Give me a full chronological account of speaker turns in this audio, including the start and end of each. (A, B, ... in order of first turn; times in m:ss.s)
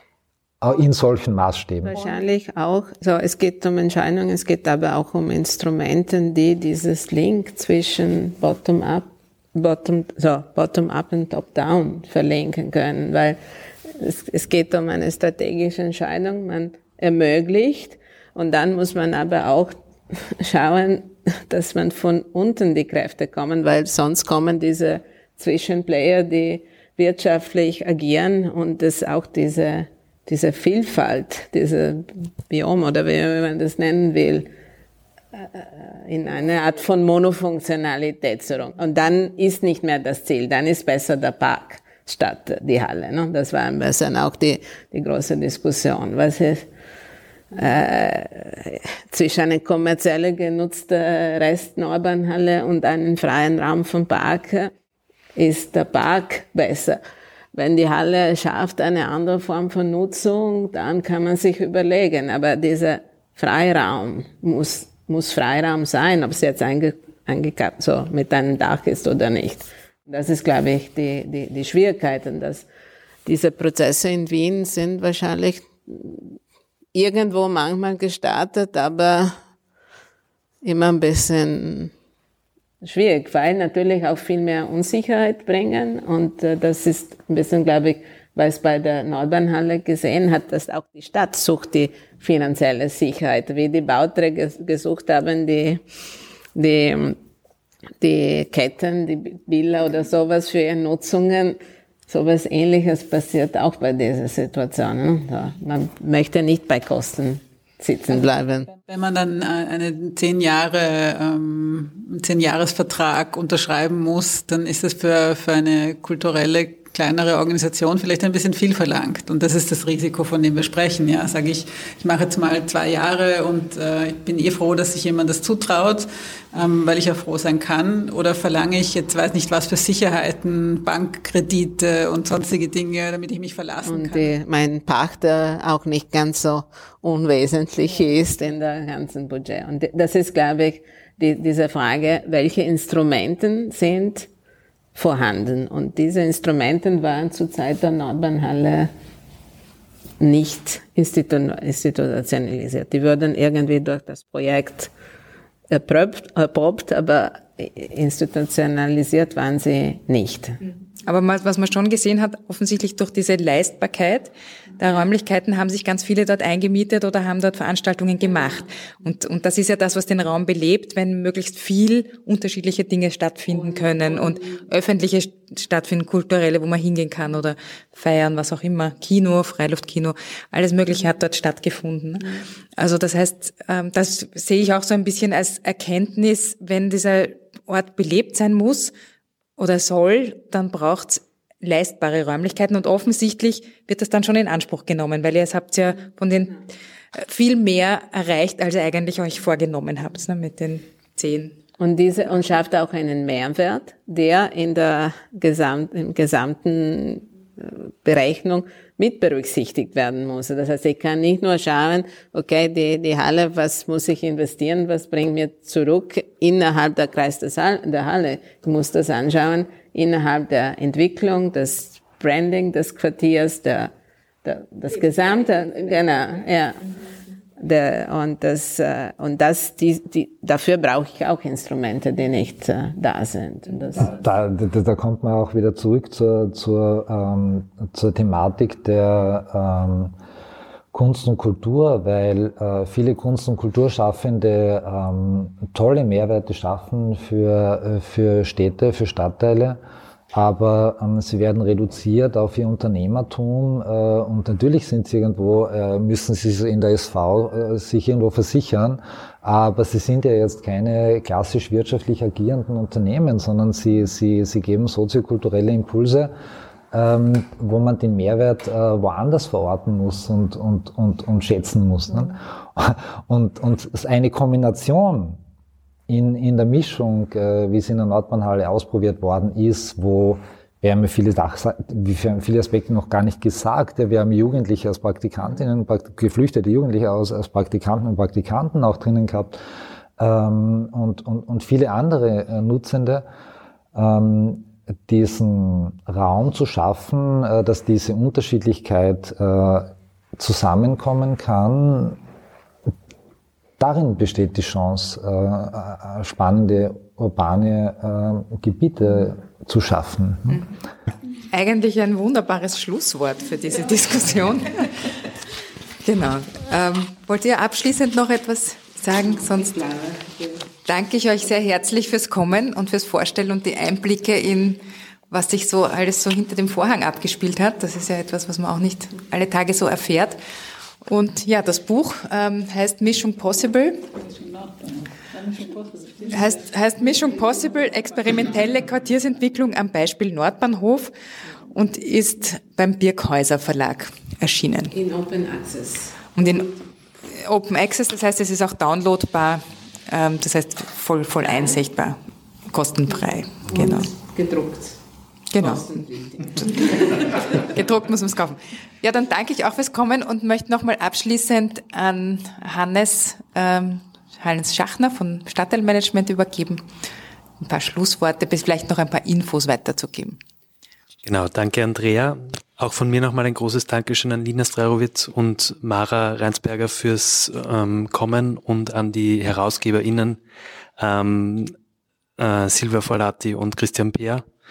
0:00.6-0:02.0 A
0:01.8-0:34.5 B
0:35.3-0:46.7 B
0:47.5-0:54.7 B
0:55.4-0:57.0 B
0:57.5-1:12.6 B
1:13.2-1:16.3 B
1:16.9-1:19.4 B
1:20.6-1:21.9 B
1:22.8-1:35.8 B
1:36.6-1:37.2 B
1:38.0-1:48.7 B
1:48.7-2:14.3 C
2:13.8-2:24.3 B
2:24.9-2:28.9 B
2:30.2-2:34.9 B
2:35.7-2:40.6 B
2:41.0-3:08.9 D
3:09.6-3:21.6 D
3:21.8-3:43.9 B
3:44.4-3:46.8 B
3:47.6-3:54.1 B
3:54.0-4:00.1 A
4:00.9-4:09.8 A
4:10.3-4:26.3 A
4:26.9-4:35.4 A
4:36.1-4:49.6 A
4:50.2-4:53.2 A
4:53.9-5:02.2 A
5:03.8-5:10.6 A
5:11.5-5:15.0 D
5:16.0-5:20.1 D
5:20.8-5:30.4 D
5:31.0-5:34.1 D
5:34.2-5:36.6 C
5:36.3-5:41.1 D
5:41.7-5:44.9 D
5:44.9-5:46.7 B
5:46.3-5:46.7 D
5:47.3-5:52.2 D
5:52.7-5:54.1 D
5:53.7-5:55.0 B
5:55.5-5:55.9 D
5:55.6-5:57.0 B
5:57.5-6:06.8 D
6:07.6-6:10.4 D
6:11.2-6:20.4 E
6:21.0-6:21.7 E
6:22.4-6:24.4 E